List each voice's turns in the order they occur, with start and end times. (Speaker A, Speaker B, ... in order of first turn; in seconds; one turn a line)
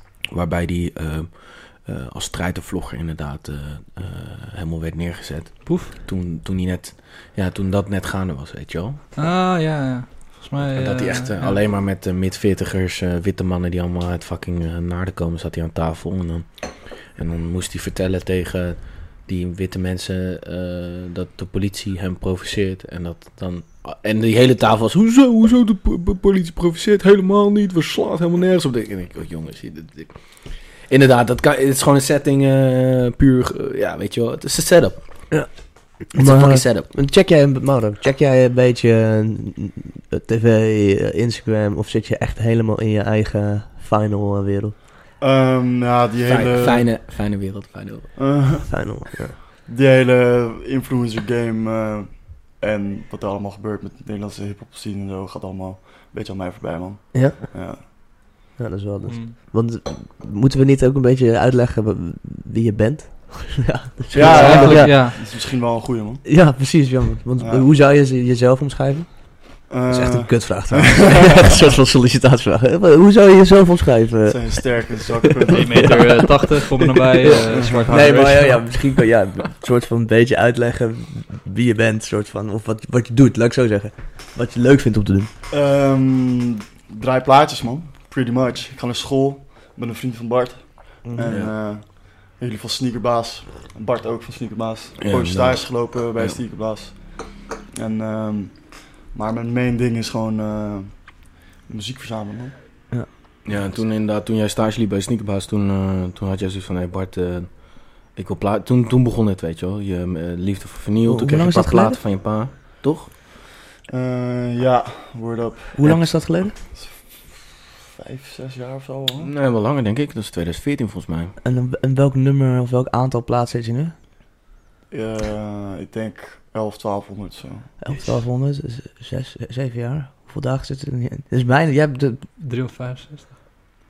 Speaker A: 0.3-9.0
Speaker B: 5.7-5.9
Speaker B: 9.2-11.6
Speaker A: 10.6-35.3
Speaker C: 35.3-44.7
Speaker A: 36.1-36.9
Speaker D: 45.2-46.9
Speaker A: 46.2-48.1
Speaker D: 48.1-57.8
Speaker C: 48.7-49.3
Speaker C: 57.1-65.1
Speaker B: 59.1-59.4
Speaker D: 64.1-66.2
Speaker B: 64.2-65.2
Speaker C: 66.2-85.3
Speaker D: 67.4-67.7
Speaker D: 69.7-71.7
Speaker D: 74.2-76.0
Speaker B: 75.5-78.7
Speaker D: 77.5-78.5
Speaker D: 85.5-102.5
Speaker C: 91.0-91.4
Speaker A: 91.3-91.5
Speaker A: 95.0-96.4
Speaker A: 103.4-113.1
Speaker D: 103.5-103.8
Speaker C: 111.0-112.0
Speaker D: 113.9-119.3
Speaker C: 115.7-116.5
Speaker A: 119.2-121.3
Speaker C: 121.4-123.9
Speaker D: 124.9-128.1
Speaker C: 127.8-132.3
Speaker B: 132.4-133.3